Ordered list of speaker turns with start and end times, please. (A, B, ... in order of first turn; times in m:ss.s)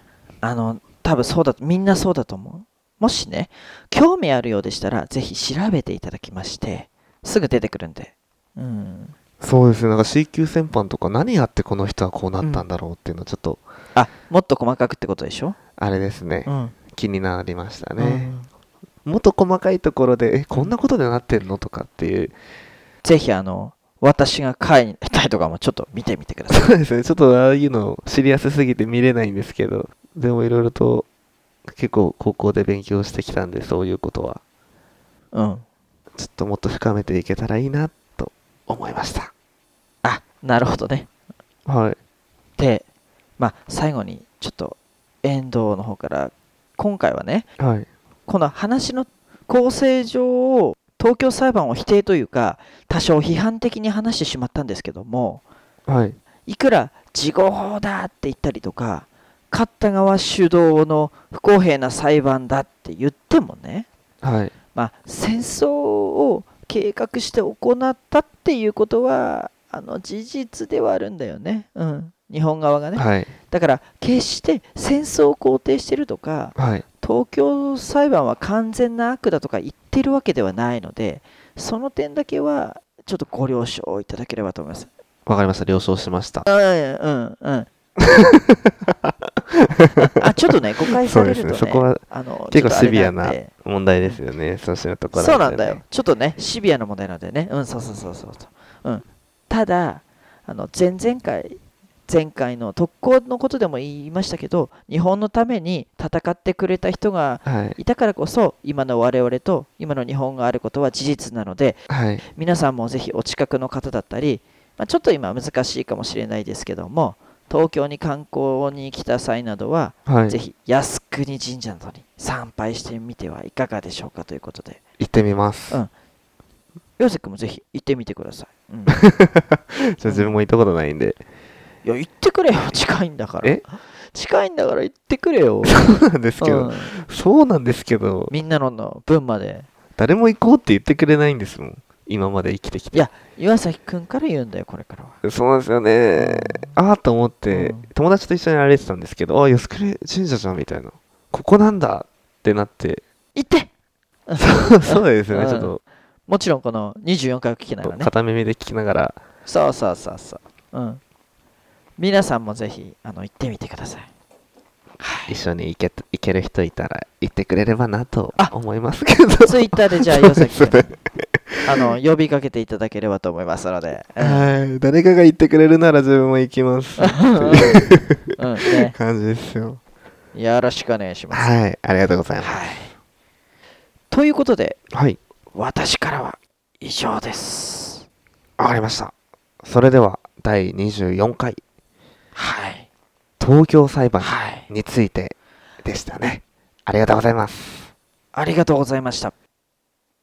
0:00.4-0:09.1 A
0:09.4-0:13.6 B
0:14.0-0:15.6 A
0:15.8-0:18.3 B
0:16.5-0:16.8 A
0:18.0-0:18.5 A
0:19.0-0:22.4 B
0:23.0-0:26.7 A
0:26.5-0:31.1 B
0:31.7-0:34.4 B
0:35.3-0:35.6 A
0:36.2-0:39.3 B
0:40.0-0:41.1 A
0:41.7-0:42.0 B
0:42.6-0:42.9 A
0:43.4-0:47.5 A
0:47.6-0:47.9 B
0:48.3-0:55.4 A
0:55.9-0:56.2 B
0:56.5-1:03.9 A
1:04.2-1:04.5 B
1:04.8-1:24.9 A
1:13.0-1:13.3 B
1:16.6-1:16.8 B
1:25.3-1:26.5 B
1:26.5-1:27.7 A
1:28.0-1:30.2 B
1:30.0-1:33.5 A
1:31.1-1:35.8 B
1:35.1-2:04.8 A
1:47.5-1:47.8 B
1:51.9-1:52.2 B
2:00.1-2:00.4 B
2:05.0-2:05.8 B
2:07.0-2:09.0 A
2:08.9-2:11.2 B
2:10.0-2:10.4 A
2:11.8-2:17.0 A
2:15.7-2:18.3 B
2:18.3-2:19.7 A
2:20.0-2:23.1 B
2:22.9-2:25.2 A
2:25.2-2:33.0 B
2:26.2-2:26.8 A
2:27.5-2:27.9 A
2:33.4-2:33.7 A
2:34.3-2:35.7 A
2:34.4-2:35.8 B
2:36.3-2:38.1 A
2:37.8-2:39.2 B
2:39.5-2:41.0 A
2:42.0-2:44.1 A
2:45.0-2:45.4 A
2:45.3-2:51.7 B
2:49.4-2:51.0 A
2:51.6-2:54.5 A
2:54.2-2:59.8 B
2:57.0-2:59.0 A
3:00.3-3:01.5 A
3:01.3-3:02.7 B
3:02.4-3:02.9 A
3:04.1-3:04.8 A
3:04.9-3:05.2 B
3:05.5-3:08.1 A
3:08.6-3:11.6 B
3:12.4-3:12.9 A
3:13.4-3:17.9 B
3:14.2-3:14.7 A
3:18.3-3:19.3 A